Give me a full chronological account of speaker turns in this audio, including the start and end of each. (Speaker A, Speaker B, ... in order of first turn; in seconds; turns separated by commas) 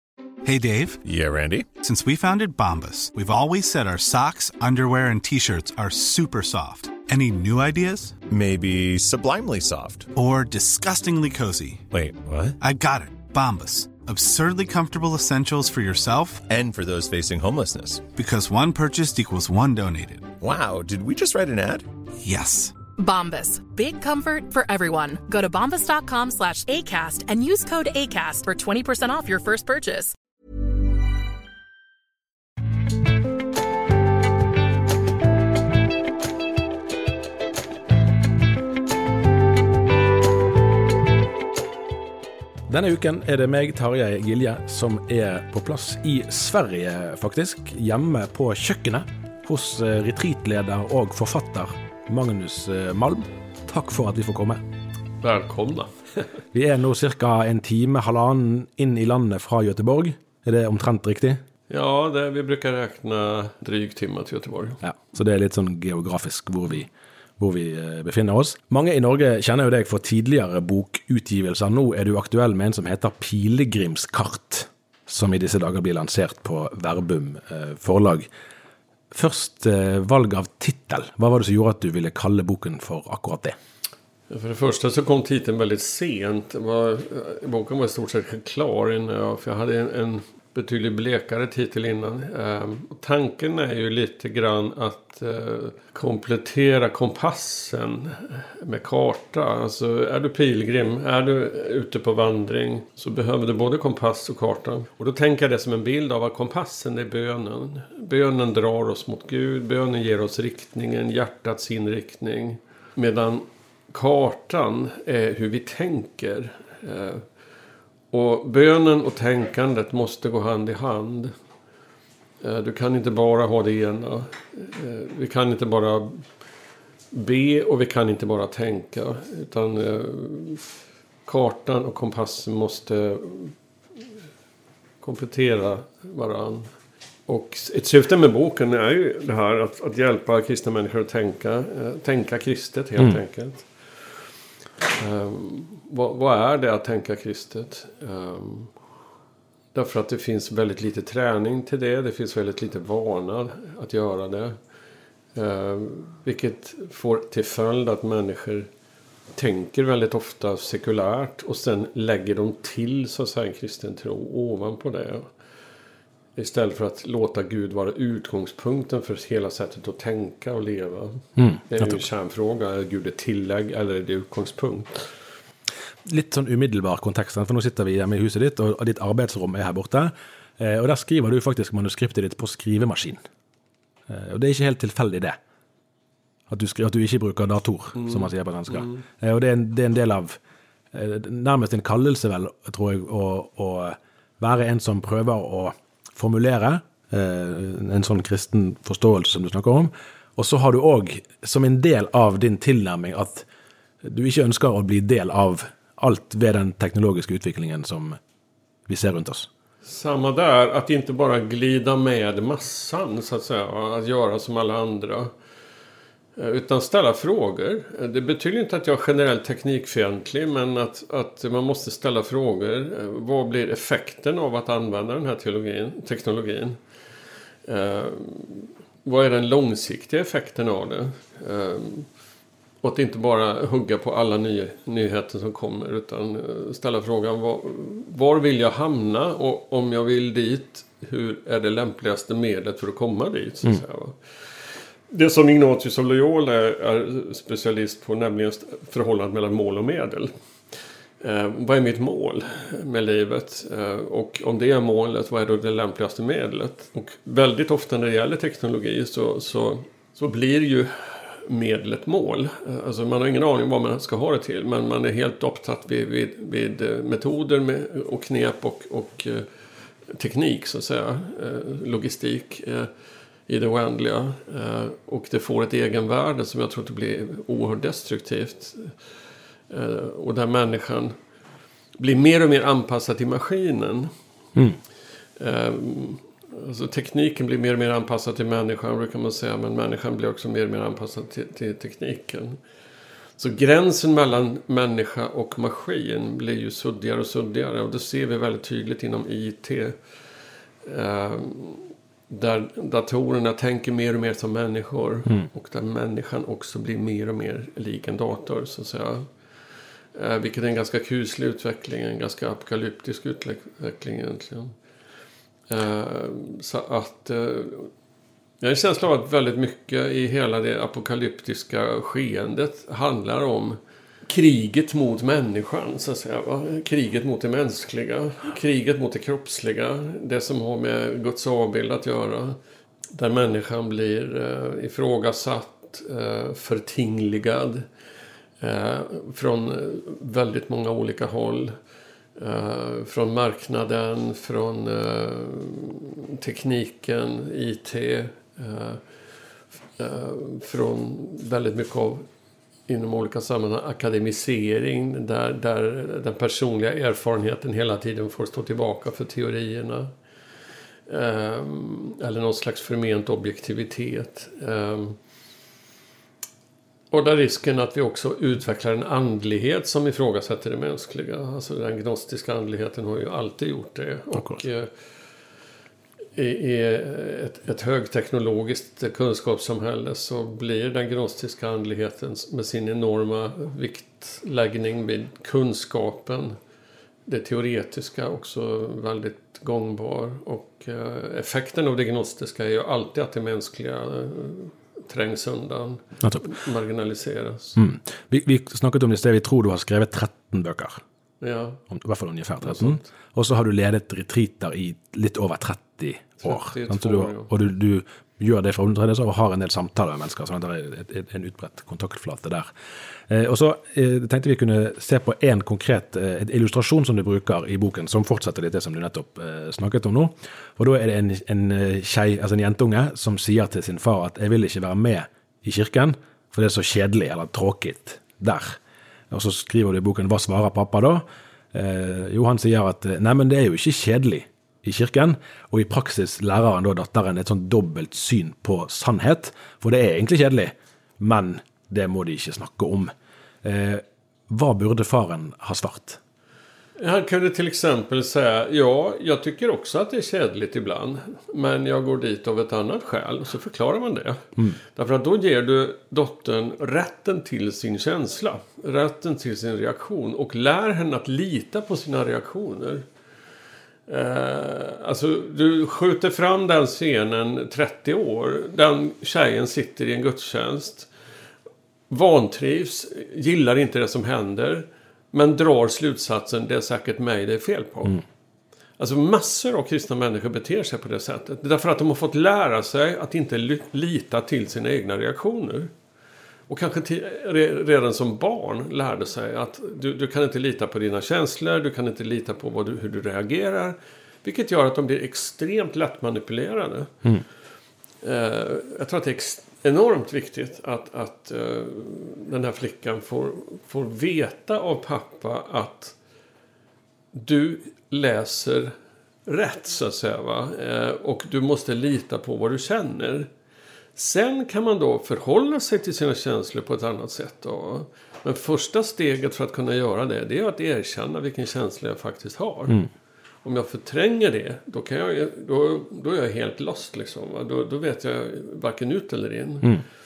Speaker A: 0.4-1.0, Speaker B: 1.0-1.7, Speaker A: 1.8-8.2, Speaker B: 8.3-10.1, Speaker A: 10.1-11.8, Speaker B: 11.9-12.6, Speaker A: 12.6-16.4, Speaker B: 16.5-18.1, Speaker A: 18.2-20.3, Speaker B: 20.4-21.9, Speaker A: 22.2-22.7, Speaker C: 22.9-30.1, Speaker D: 42.7-54.6, Speaker E: 55.2-55.9, Speaker D: 56.5-61.4, Speaker E: 61.7-64.8, Speaker D: 64.8-78.3, Speaker D: 79.1-83.5, Speaker E: 84.3-117.2, Speaker E: 118.1-121.3, Speaker E: 122.4-126.2, Speaker E: 127.1-130.7, Speaker E: 131.2-133.5, Speaker E: 135.0-136.7, Speaker E: 137.3-143.9, Speaker E: 144.9-148.7, Speaker E: 149.7-154.6, Speaker E: 155.3-158.7, Speaker E: 159.3-165.3, Speaker E: 166.3-175.1, Speaker D: 171.4-172.0, Speaker D: 176.0-183.2, Speaker D: 184.1-185.4, Speaker D: 186.5-190.4, Speaker E: 188.0-189.0, Speaker D: 190.9-203.5, Speaker D: 204.0-208.2, Speaker D: 208.9-209.5, Speaker E: 209.8-215.3, Speaker E: 216.4-226.8, Speaker E: 227.7-232.1, Speaker E: 232.8-244.2, Speaker E: 245.1-250.3, Speaker E: 251.2-269.5, Speaker E: 270.1-272.9, Speaker E: 273.5-278.9, Speaker E: 279.7-281.1, Speaker E: 282.0-284.1, Speaker E: 285.4-292.6, Speaker E: 293.4-299.9, Speaker E: 300.8-309.3, Speaker E: 310.1-314.7, Speaker E: 315.7-317.9, Speaker E: 318.6-332.6, Speaker E: 333.1-337.9, Speaker E: 338.6-341.7, Speaker E: 342.4-349.0, Speaker E: 350.0-352.2, Speaker E: 352.9-360.1, Speaker E: 361.1-365.2, Speaker E: 367.1-374.9, Speaker D: 374.3-374.6, Speaker E: 376.4-386.6, Speaker E: 387.3-397.8, Speaker D: 397.8-401.0, Speaker E: 401.4-401.8, Speaker D: 401.9-412.7, Speaker E: 402.6-403.0, Speaker E: 406.4-407.5, Speaker D: 413.3-428.8, Speaker D: 429.3-443.1, Speaker D: 443.6-446.2, Speaker E: 447.0-454.4, Speaker E: 454.9-463.0, Speaker E: 464.1-471.1, Speaker E: 472.1-478.2, Speaker E: 479.0-485.9, Speaker E: 486.7-497.1, Speaker E: 498.2-506.1, Speaker E: 507.3-508.9, Speaker E: 509.5-513.5, Speaker E: 514.1-523.0, Speaker E: 523.6-530.0